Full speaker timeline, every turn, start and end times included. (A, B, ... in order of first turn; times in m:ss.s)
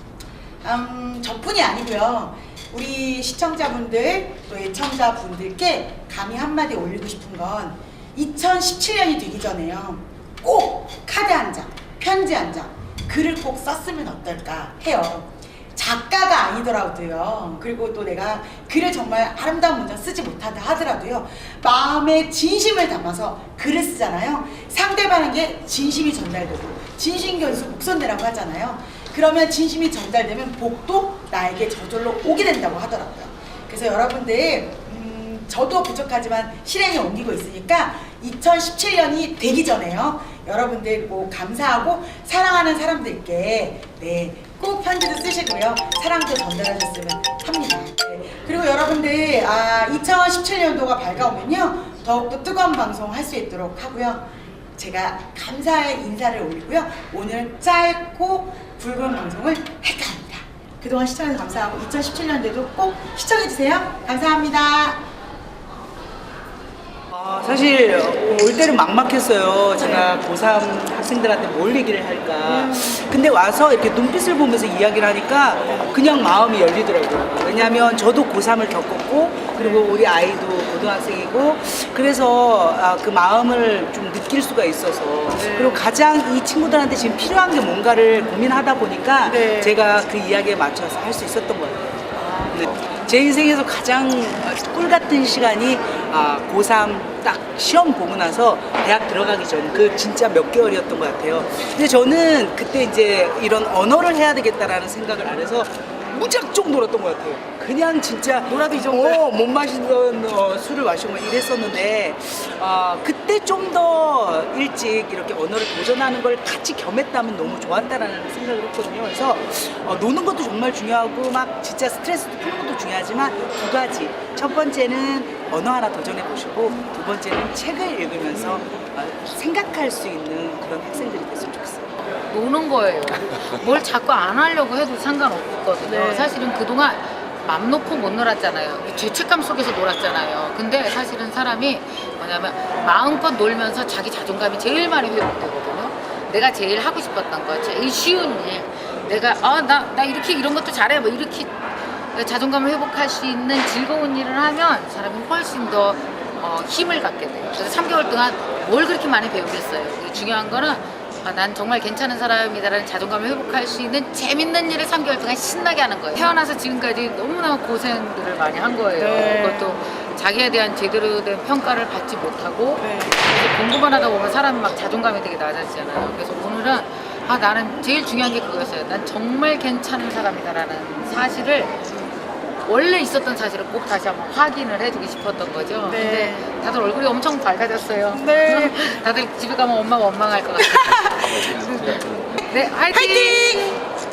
0:00.6-1:05.0 A
1:07.1-2:12.0 B
1:19.6-1:19.9 A
1:25.4-1:25.8 A
1:29.2-1:29.8 A
1:48.5-1:49.2 A
2:12.3-2:31.5 C
2:15.9-2:16.4 A
2:32.1-3:01.8 C
2:49.0-2:49.8 A
2:52.8-2:53.2 A
3:02.6-3:13.7 C
3:05.9-3:06.4 A
3:08.1-3:08.8 A
3:10.8-3:11.6 A
3:12.9-3:13.8 A